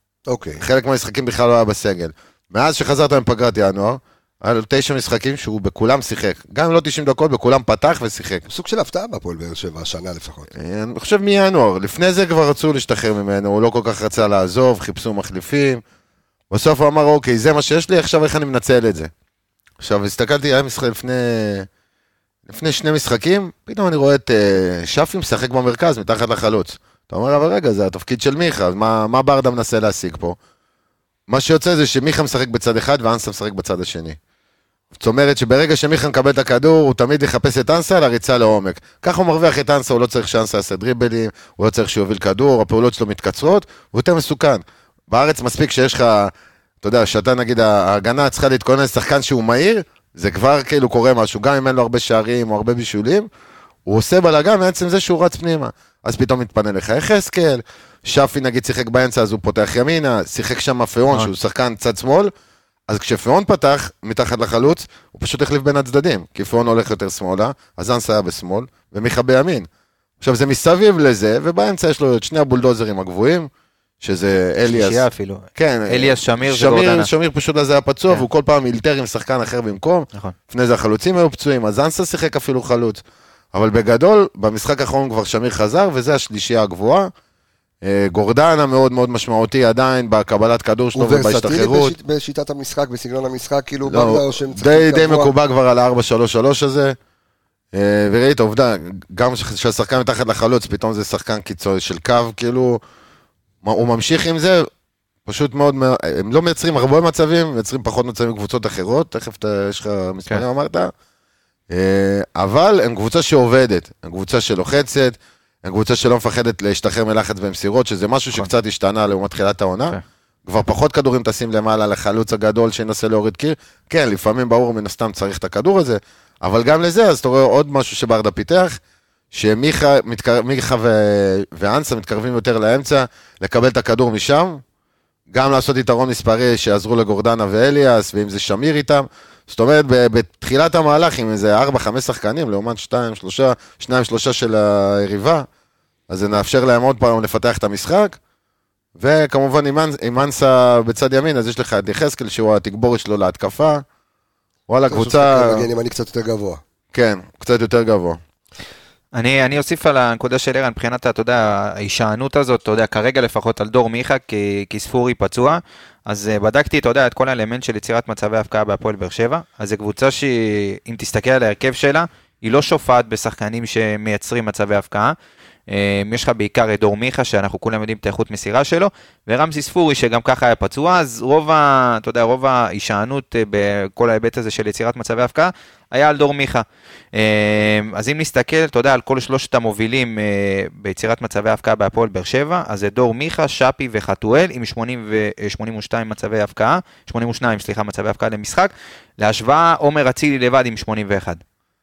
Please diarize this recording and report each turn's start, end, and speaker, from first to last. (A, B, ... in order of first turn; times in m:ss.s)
0:00.3-0:00.6 A
0:00.6-0:08.4 B
0:08.5-0:10.5 A
0:10.5-0:15.8 B
0:16.5-0:19.1 B
0:19.8-0:21.7 B
0:22.5-0:30.4 B
0:31.3-0:34.2 B
0:34.9-0:53.3 B
0:53.8-1:02.3 B
1:02.9-1:09.7 B
1:10.2-1:13.5 B
1:14.0-1:15.0 B
1:14.6-1:17.1 C
1:15.6-1:23.0 B
1:23.5-1:27.1 B
1:27.8-1:31.9 B
1:30.9-1:35.3 A
1:33.8-1:37.0 B
1:37.7-1:42.8 B
1:43.6-1:44.7 B
1:45.2-1:50.9 B
1:51.7-2:08.8 B
2:09.3-2:14.6 B
2:15.3-2:25.4 B
2:26.1-2:28.2 B
2:29.0-2:33.8 B
2:34.7-2:35.7 B
2:34.9-2:36.6 A
2:36.9-2:38.2 B
2:39.1-2:55.1 C
2:55.7-3:21.4 C